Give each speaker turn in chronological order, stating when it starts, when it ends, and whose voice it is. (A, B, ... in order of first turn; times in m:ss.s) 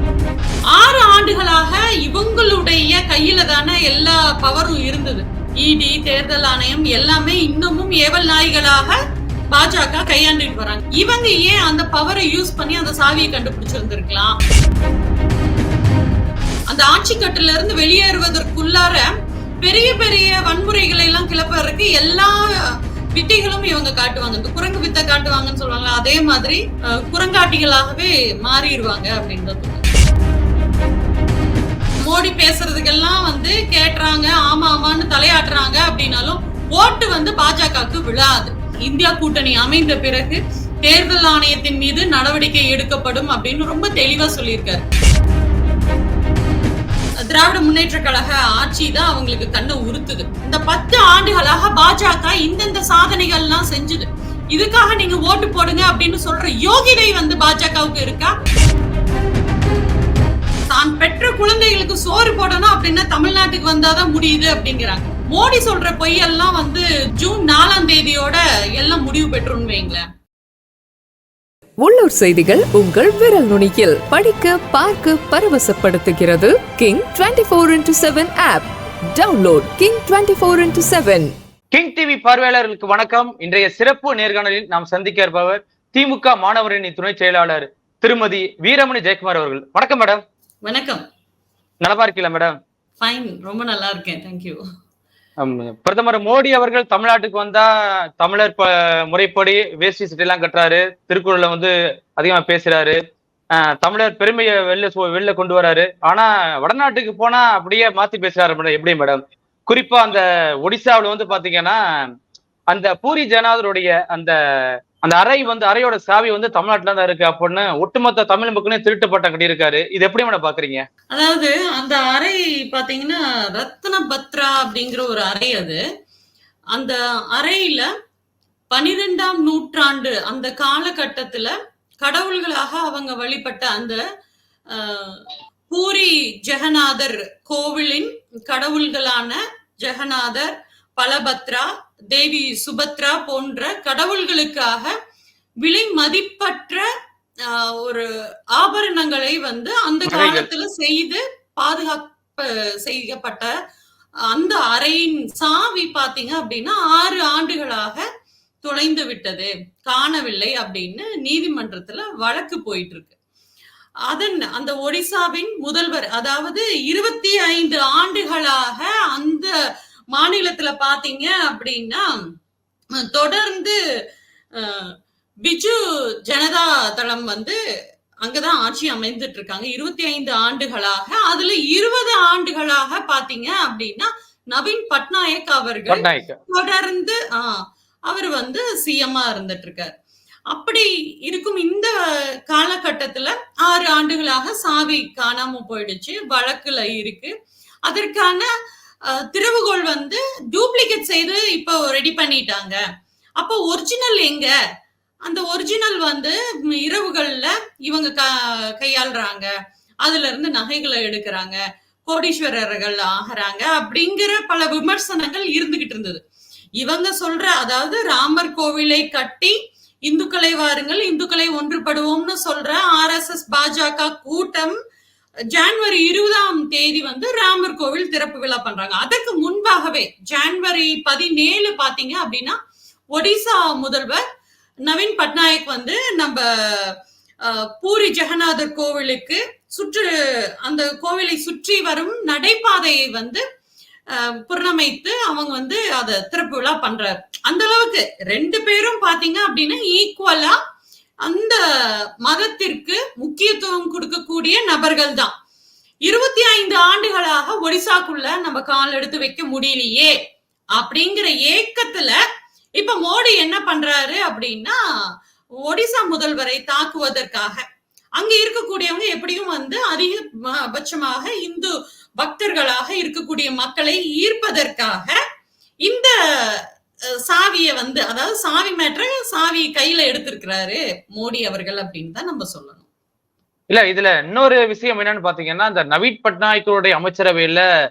0:00.7-0:09.0 A
0:09.5-0:14.4 A
0:16.7-0:19.1 A
0:19.6-0:29.8 A
0:32.0-0:44.8 A
0:47.2-0:58.3 A
1:00.7-1:10.0 A
1:11.8-1:21.3 B
1:21.7-1:30.2 C
1:30.6-1:31.0 A
1:31.8-1:32.5 C
1:33.0-1:34.6 A
1:35.4-1:37.7 C
1:38.2-1:43.0 C
1:43.8-1:51.8 C
1:52.7-1:54.3 C
1:55.0-2:00.8 C
2:01.1-2:05.8 A
2:06.7-2:07.9 A
2:08.7-2:14.0 A
2:14.7-2:24.9 A
2:25.6-2:26.8 A
2:27.4-2:33.5 A
2:30.1-2:30.5 C
2:34.3-2:38.0 A
2:38.6-2:43.1 A
2:44.1-2:49.5 A
2:50.1-2:52.0 A
2:53.1-2:53.8 A
2:54.6-2:54.9 A
2:55.4-2:57.6 A
2:58.2-3:09.9 A
3:05.9-3:06.4 C
3:10.5-3:12.0 A
3:12.5-3:17.3 A
3:17.9-3:18.5 A
3:19.1-3:22.8 A
3:23.4-3:24.5 A
3:25.2-3:29.5 A
3:30.0-3:36.2 A
3:36.8-3:44.8 A
3:45.5-3:52.6 A
3:53.1-3:54.2 A
3:54.9-4:00.1 A
4:00.6-4:03.4 A
4:04.1-4:10.6 A
4:11.2-4:11.6 A
4:12.2-4:15.3 A
4:16.0-4:20.1 A
4:20.8-4:22.2 A
4:22.8-4:24.8 A
4:25.7-4:27.6 A
4:28.2-4:35.2 A
4:35.8-4:36.6 A
4:37.2-4:42.8 A
4:43.7-4:47.6 C